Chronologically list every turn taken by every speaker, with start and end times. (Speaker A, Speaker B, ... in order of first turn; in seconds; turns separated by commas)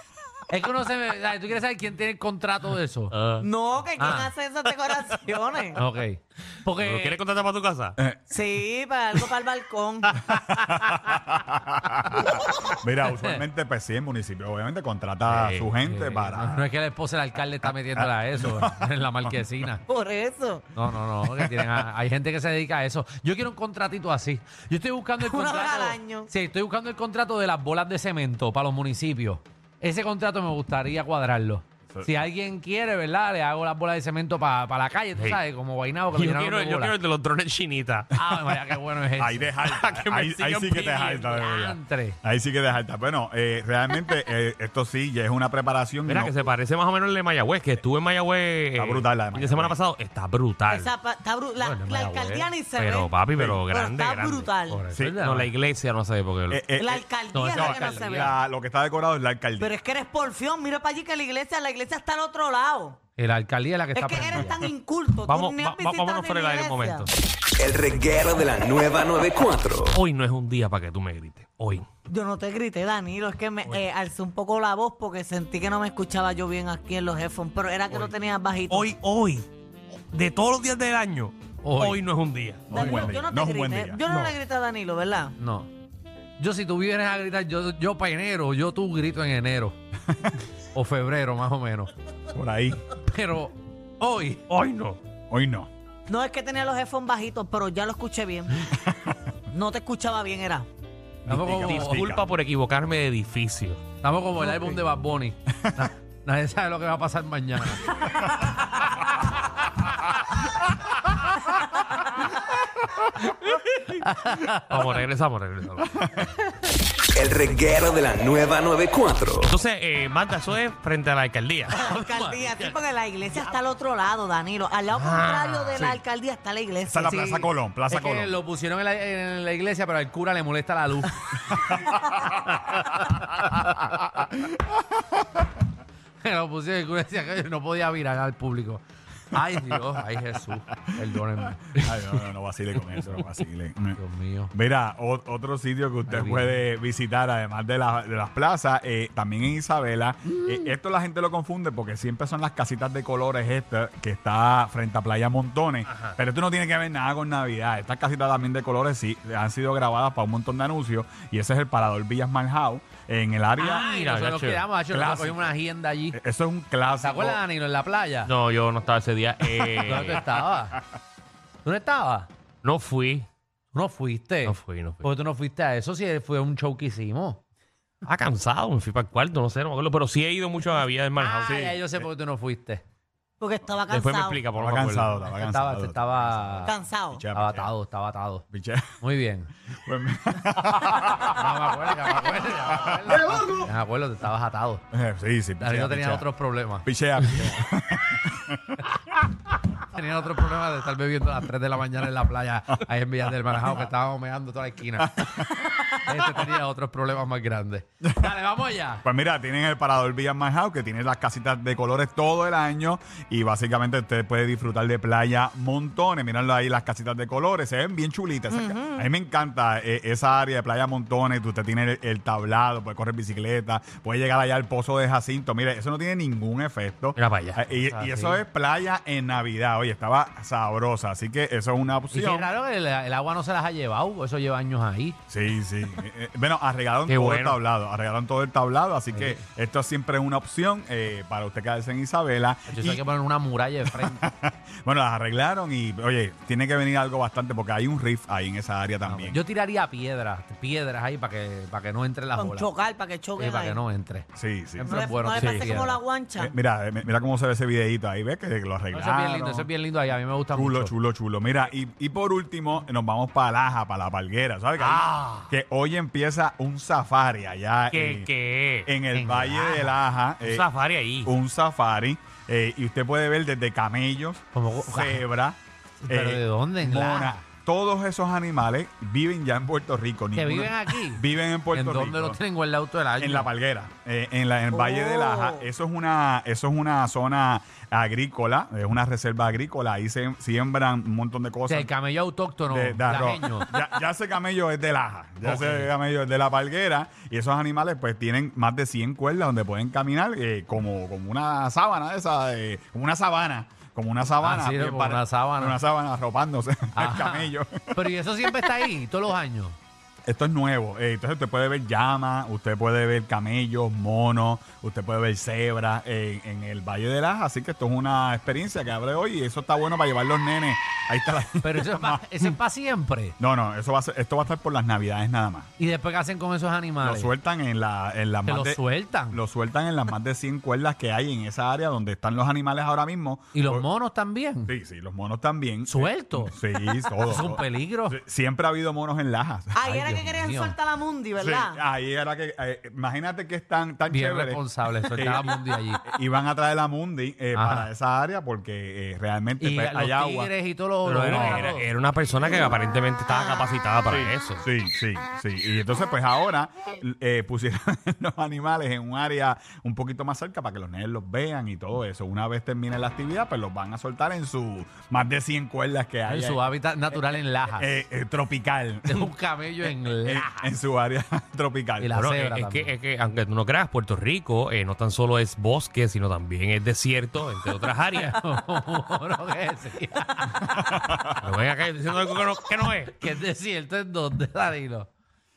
Speaker A: 0.5-3.1, Speaker B: 3.1-3.5, Speaker C: 3.4-5.8, Speaker A: 4.0-4.3, Speaker A: 5.7-7.2, Speaker B: 6.8-8.0, Speaker D: 8.0-8.3, Speaker C: 8.3-10.3, Speaker D: 10.2-16.6, Speaker A: 13.1-13.4, Speaker B: 15.2-15.7, Speaker A: 15.8-19.8, Speaker D: 17.6-19.4, Speaker C: 19.9-20.7, Speaker A: 20.7-36.9, Speaker D: 21.3-21.8, Speaker C: 25.2-26.3, Speaker D: 31.9-32.2, Speaker B: 36.1-38.1, Speaker A: 38.1-39.5, Speaker D: 39.2-46.3, Speaker B: 39.6-41.3, Speaker A: 41.3-42.2, Speaker B: 46.0-50.9, Speaker D: 48.8-49.8, Speaker C: 50.7-53.1, Speaker A: 51.6-52.5, Speaker B: 52.7-54.5, Speaker C: 53.7-54.8, Speaker A: 54.7-55.5, Speaker D: 54.9-55.2, Speaker B: 55.2-56.6, Speaker D: 56.5-59.7, Speaker C: 56.8-58.3, Speaker A: 57.3-58.3, Speaker C: 59.6-63.0, Speaker A: 63.2-64.6, Speaker C: 63.9-67.1, Speaker B: 65.2-67.1, Speaker E: 67.6-70.0, Speaker B: 69.9-71.8, Speaker C: 72.1-78.9, Speaker B: 78.7-79.5, Speaker B: 80.1-82.7, Speaker A: 81.6-82.0, Speaker D: 82.7-84.3, Speaker C: 82.7-85.3, Speaker A: 85.4-85.7, Speaker A: 86.4-89.8, Speaker D: 90.1-90.4, Speaker A: 90.7-91.9, Speaker D: 92.3-92.8, Speaker A: 93.0-94.4, Speaker B: 94.5-95.0, Speaker D: 95.3-95.7, Speaker C: 96.1-98.7, Speaker D: 98.8-99.2, Speaker C: 99.5-100.7, Speaker D: 101.2-102.2, Speaker A: 101.3-102.0, Speaker B: 101.5-103.8, Speaker A: 104.0-108.0, Speaker A: 113.9-114.8, Speaker B: 114.7-116.0, Speaker D: 115.8-116.3, Speaker E: 117.1-119.5, Speaker B: 119.4-121.8, Speaker C: 121.7-127.5, Speaker A: 121.7-122.8, Speaker B: 124.9-125.9, Speaker D: 126.8-128.3, Speaker A: 127.9-131.8, Speaker D: 131.6-134.5, Speaker A: 132.9-133.2, Speaker A: 136.2-141.9, Speaker D: 141.5-144.0, Speaker A: 143.9-144.5, Speaker D: 144.5-163.8, Speaker A: 146.1-146.6, Speaker B: 155.8-156.2, Speaker B: 163.6-164.7, Speaker A: 163.6-166.2, Speaker D: 164.9-165.5, Speaker D: 166.1-167.4, Speaker A: 167.0-168.3, Speaker B: 168.2-170.2, Speaker D: 169.6-170.2, Speaker A: 169.8-170.8, Speaker A: 171.6-172.3, Speaker B: 172.6-173.3, Speaker A: 173.7-177.4, Speaker B: 174.4-175.1, Speaker B: 178.0-181.6, Speaker A: 181.2-182.8, Speaker D: 181.4-182.1, Speaker C: 183.4-184.4, Speaker B: 183.9-185.2, Speaker D: 184.6-187.7, Speaker A: 185.2-186.7, Speaker C: 186.6-187.2, Speaker A: 187.3-188.4, Speaker D: 188.5-188.9, Speaker A: 189.0-189.5, Speaker D: 189.8-191.5, Speaker A: 190.8-194.8, Speaker D: 192.7-193.7, Speaker D: 194.9-196.3, Speaker A: 195.6-197.6, Speaker D: 196.8-199.2, Speaker A: 199.8-209.0, Speaker D: 203.6-203.9, Speaker D: 205.0-206.5, Speaker D: 208.0-208.3, Speaker D: 209.0-232.5, Speaker C: 218.5-219.1, Speaker B: 227.2-227.6, Speaker A: 227.8-228.4, Speaker A: 232.1-235.2, Speaker D: 235.3-243.0, Speaker B: 237.1-237.6, Speaker A: 239.1-239.4, Speaker A: 242.7-244.3, Speaker D: 243.9-249.4, Speaker A: 249.0-252.7, Speaker C: 252.4-253.8, Speaker A: 253.4-256.0, Speaker D: 254.3-255.1, Speaker C: 254.8-256.5, Speaker B: 255.4-255.6, Speaker D: 256.4-259.7, Speaker A: 258.9-260.9, Speaker D: 260.5-268.3, Speaker B: 264.8-265.5, Speaker B: 267.9-268.9, Speaker D: 268.8-270.7, Speaker A: 269.1-269.9, Speaker B: 270.4-271.3, Speaker D: 271.2-275.6, Speaker A: 274.5-275.2, Speaker A: 276.0-277.4, Speaker D: 276.1-282.4, Speaker A: 280.3-283.5, Speaker D: 283.2-291.9, Speaker C: 284.7-285.6, Speaker A: 291.7-293.7, Speaker D: 292.7-308.9, Speaker A: 295.4-295.9, Speaker A: 304.4-305.8, Speaker A: 306.9-309.8, Speaker D: 310.3-322.2, Speaker A: 321.6-323.4, Speaker D: 323.4-325.7, Speaker A: 325.8-327.3, Speaker D: 327.0-333.9, Speaker A: 328.4-329.4, Speaker A: 333.5-334.7, Speaker D: 334.6-339.8, Speaker A: 335.9-338.2, Speaker C: 339.7-341.8, Speaker A: 339.8-340.8, Speaker D: 341.4-350.5, Speaker A: 344.1-346.0, Speaker A: 347.5-347.9, Speaker A: 349.6-351.9, Speaker B: 351.0-354.6, Speaker D: 351.2-351.7, Speaker D: 354.1-372.1, Speaker A: 366.2-367.9, Speaker A: 369.1-370.7, Speaker A: 372.0-372.9, Speaker B: 372.1-378.4, Speaker A: 378.1-380.9, Speaker D: 380.8-381.4, Speaker B: 381.4-383.1, Speaker A: 383.1-385.1